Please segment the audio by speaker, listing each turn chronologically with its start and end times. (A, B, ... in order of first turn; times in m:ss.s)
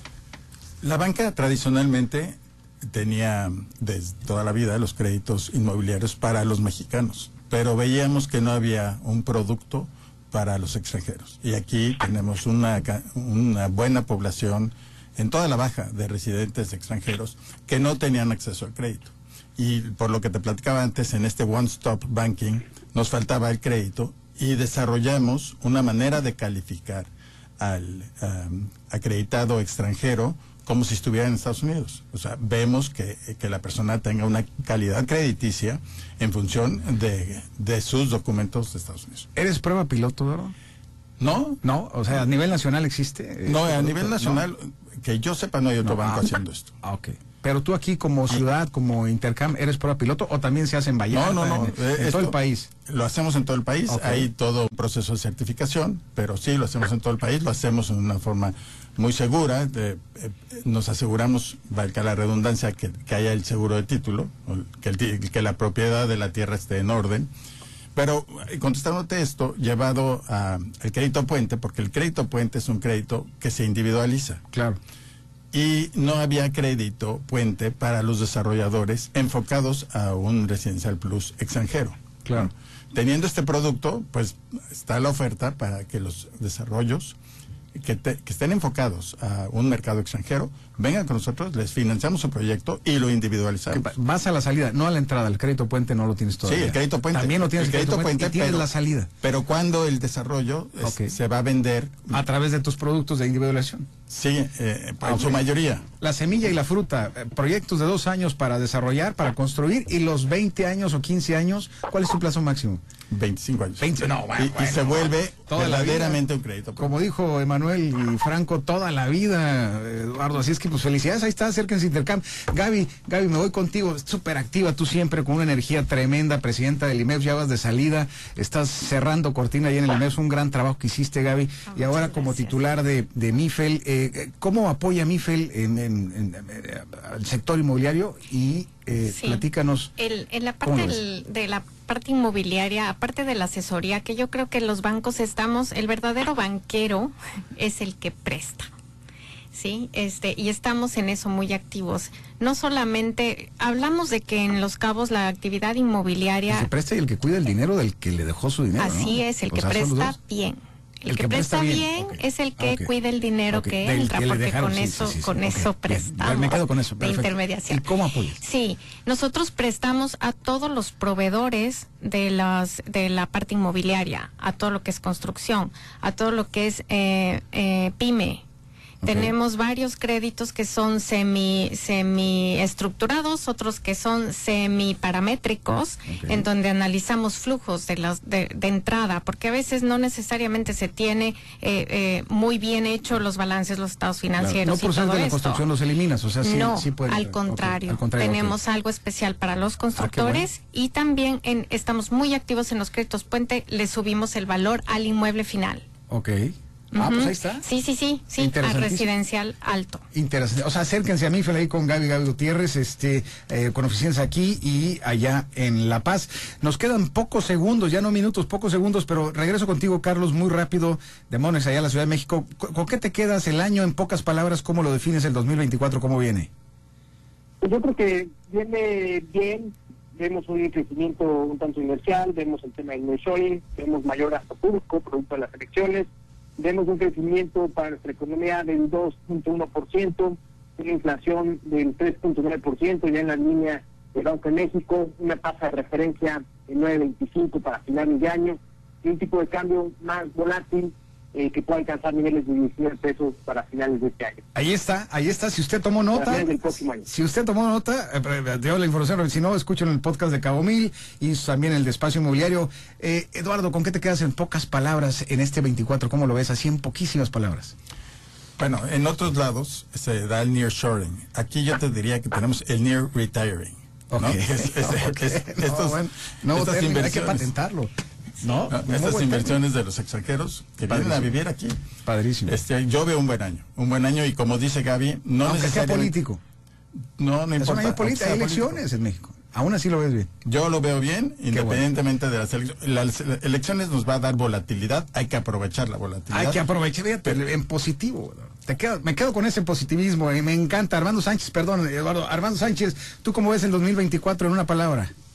0:00.8-0:27.1 A
0:27.6-0:39.3 A
0:39.3-0:40.5 B
0:41.2-0:41.6 A
0:41.6-0:44.4 B
0:43.4-0:46.7 A
0:45.8-0:46.3 B
0:46.8-0:52.7 B
0:51.1-0:52.3 A
0:52.8-1:07.3 A
0:53.9-0:54.3 B
1:07.9-1:14.4 A
1:14.5-1:14.8 B
1:15.5-1:27.2 A
1:22.2-1:22.5 B
1:27.7-1:33.9 A
1:33.7-1:39.1 B
1:36.4-1:38.7 A
1:39.2-1:42.2 A
1:40.8-1:41.1 B
1:42.1-1:43.9 B
1:44.1-1:45.8 A
1:45.0-1:45.4 B
1:46.0-1:52.8 B
1:53.1-1:56.9 A
1:53.8-1:56.2 B
1:56.8-2:19.9 B
2:11.7-2:12.6 C
2:19.1-2:19.4 C
2:20.0-2:28.7 C
2:20.6-2:21.0 B
2:29.5-2:36.7 C
2:36.5-2:40.2 B
2:38.8-2:47.8 C
2:41.0-2:42.9 B
2:43.5-2:48.4 B
2:48.4-2:58.4 C
2:59.0-2:59.3 B
2:59.0-3:15.6 C
3:06.1-3:06.4 B
3:14.4-3:18.6 B
3:16.4-3:25.8 C
3:20.0-3:20.5 B
3:26.1-3:27.6 B
3:26.9-3:30.0 C
3:28.4-3:29.1 B
3:30.1-3:46.5 B
3:47.6-4:14.4 D
4:14.5-4:27.7 B
4:16.1-4:17.0 D
4:28.6-4:37.5 A
4:34.1-4:39.6 B
4:38.7-4:41.8 A
4:40.9-4:41.3 B
4:42.0-4:42.6 B
4:42.4-4:46.1 A
4:45.4-4:46.4 B
4:47.2-4:48.8 A
4:47.6-4:50.3 B
4:50.4-4:56.6 A
4:51.5-4:51.8 B
4:56.3-5:05.1 B